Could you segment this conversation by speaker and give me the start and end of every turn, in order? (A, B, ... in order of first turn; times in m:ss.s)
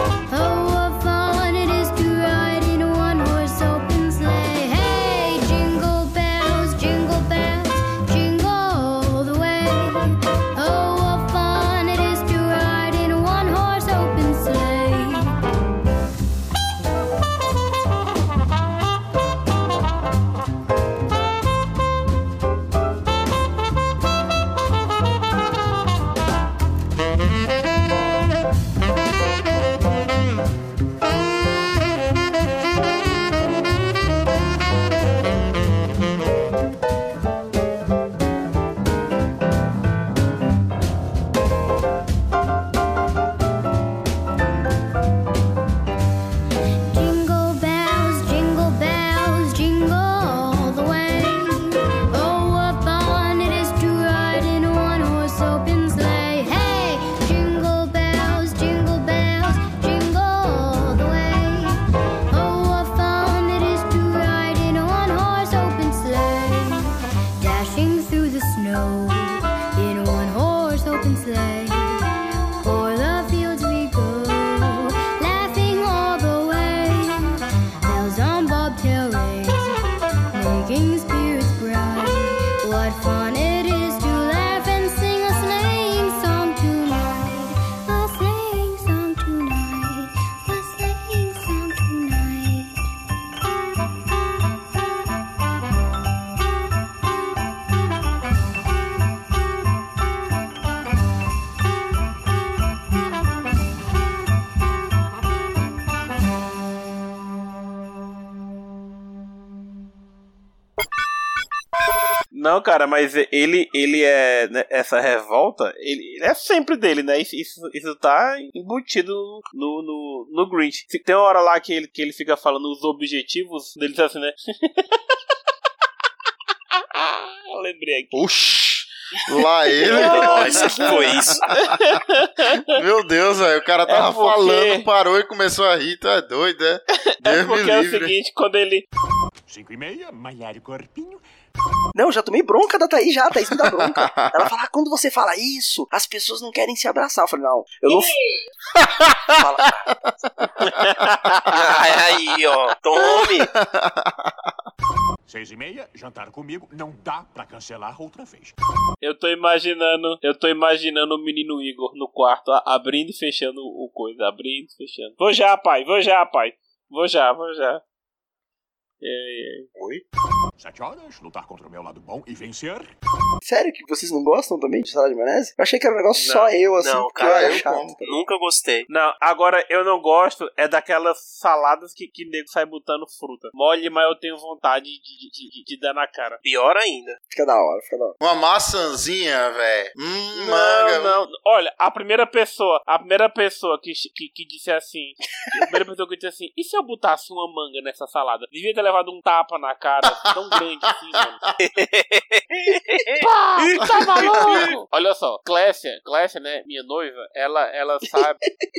0:00.3-0:15.3 A
0:46.9-1:01.8 A
1:02.3-1:12.0 A
1:12.6-1:19.8 A
1:20.3-1:32.8 A
1:52.3-2:05.0 B
2:06.8-2:08.2 B
2:08.1-2:12.0 C
2:09.8-2:11.0 B
2:09.9-2:11.4 D
2:11.5-2:12.7 B
2:12.7-2:18.2 C
2:13.9-2:14.9 B
2:17.2-2:18.8 B
2:19.5-2:21.2 E
2:21.9-2:28.2 F
2:23.6-2:24.5 C
2:28.8-2:30.4 C
2:29.3-2:29.8 F
2:30.6-2:31.6 B
2:31.5-2:33.5 D
2:33.0-2:34.5 C
2:35.3-2:38.5 E
2:39.0-2:47.8 B
2:49.0-2:49.7 B
2:49.7-2:50.0 C
2:50.6-2:52.9 E
2:53.4-2:58.2 F
2:56.2-2:56.5 B
2:56.8-2:58.9 D
2:57.2-2:58.0 C
2:58.9-3:06.4 B
3:06.4-3:07.2 D
3:07.3-3:08.2 F
3:08.2-3:11.2 C
3:10.3-3:21.4 B
3:22.1-3:23.2 D
3:23.2-3:28.4 B
3:23.8-3:24.6 C
3:28.0-3:28.6 F